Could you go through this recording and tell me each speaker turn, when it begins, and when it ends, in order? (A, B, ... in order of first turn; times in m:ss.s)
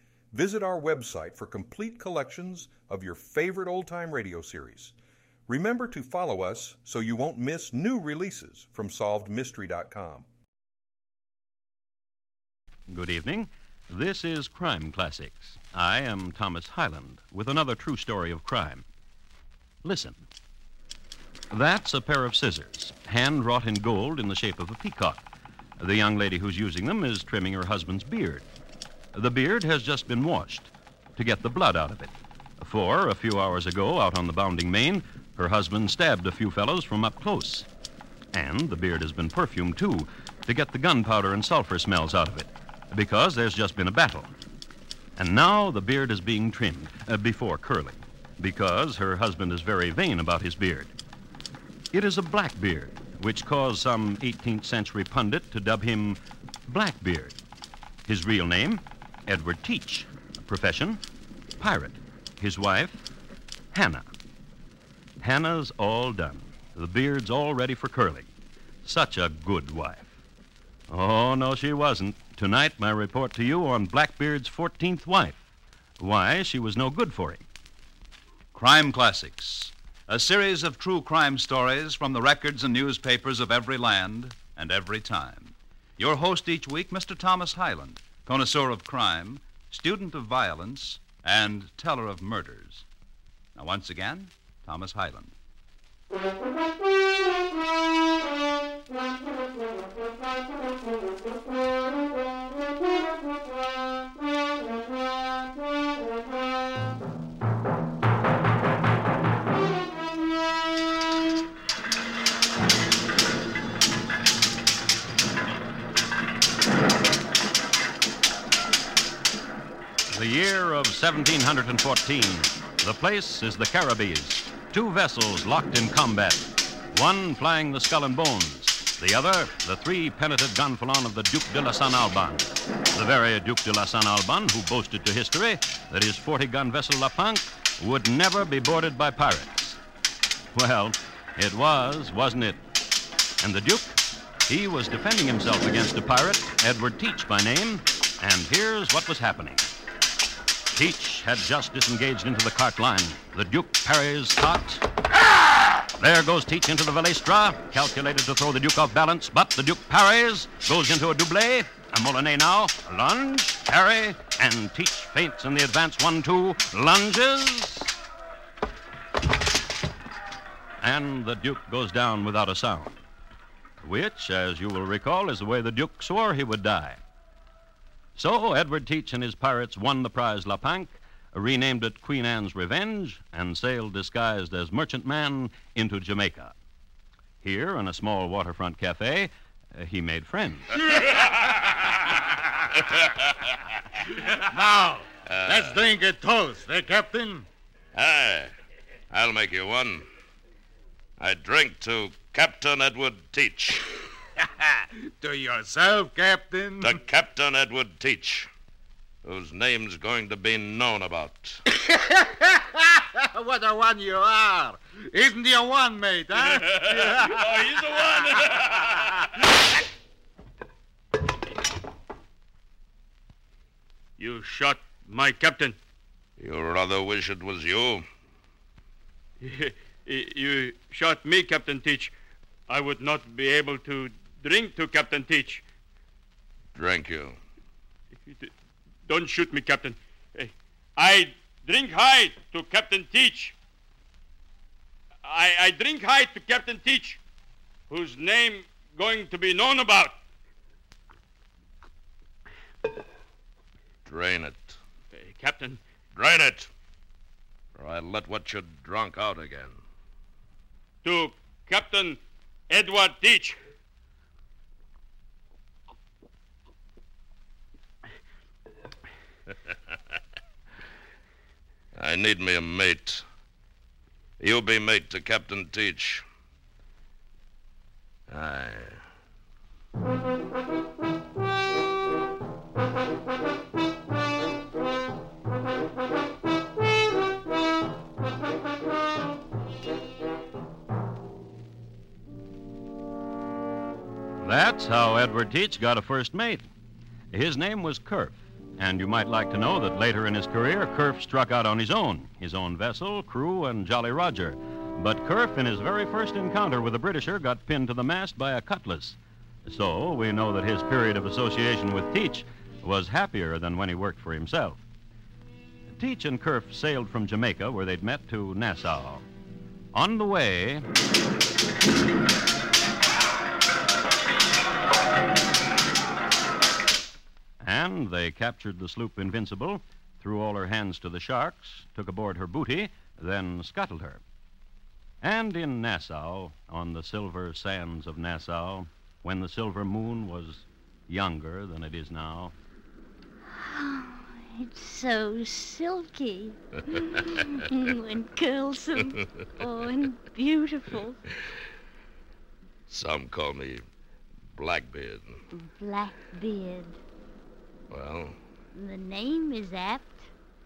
0:00.3-0:05.0 A
0:05.5-0:10.3 A
0:12.9-0:18.8 B
0:19.8-0:20.2 B
0:21.5-0:25.2 B
0:25.8-0:28.5 B
0:29.1-0:37.7 B
0:38.3-0:44.3 B
0:45.2-0:50.9 B
0:51.9-0:57.4 B
0:58.1-1:01.0 B
1:01.6-1:03.1 B
1:03.7-1:04.1 B
1:05.2-1:08.3 B
1:08.8-1:10.2 B
1:10.9-1:15.4 B
1:16.0-1:17.4 B
1:18.5-1:32.8 C
1:33.6-1:35.3 C
2:00.1-2:19.8 B
2:20.5-2:22.6 B
2:23.4-2:29.7 B
2:30.7-2:34.8 B
2:36.0-2:47.9 B
2:50.8-2:53.0 B
2:53.8-2:57.0 B
2:58.2-3:06.6 B
3:07.4-3:10.8 B
3:14.3-3:17.5 D
3:15.3-3:15.8 E
3:18.0-3:18.5 E
3:19.1-3:20.1 E
3:21.2-3:23.9 E
3:25.0-3:27.0 D
3:26.8-3:28.5 E
3:29.2-3:31.6 E
3:31.8-3:37.7 D
3:36.4-3:38.9 F
3:38.6-3:39.0 D
3:44.2-3:45.8 F
3:46.4-3:48.1 E
3:49.4-3:52.1 F
3:52.7-3:55.6 F
3:56.8-3:57.4 E
3:59.1-4:03.6 F
4:05.2-4:07.2 F
4:07.9-4:10.2 F
4:14.0-4:14.8 E
4:15.1-4:15.8 F
4:16.2-4:16.7 E
4:17.8-4:19.8 E
4:21.0-4:22.2 F
4:22.7-4:23.6 F
4:32.0-4:33.2 E
4:34.4-4:36.2 E
4:38.3-4:39.0 E
4:54.4-4:56.7 B
4:57.3-5:14.8 B
5:15.9-5:19.2 B
5:19.9-5:20.8 B
5:27.6-5:34.2 B
5:35.2-5:42.5 B
5:43.5-5:51.2 G
5:52.9-5:53.8 E
5:54.5-5:55.4 E
5:55.5-5:57.0 G
5:57.9-5:58.4 E
5:58.7-6:00.3 G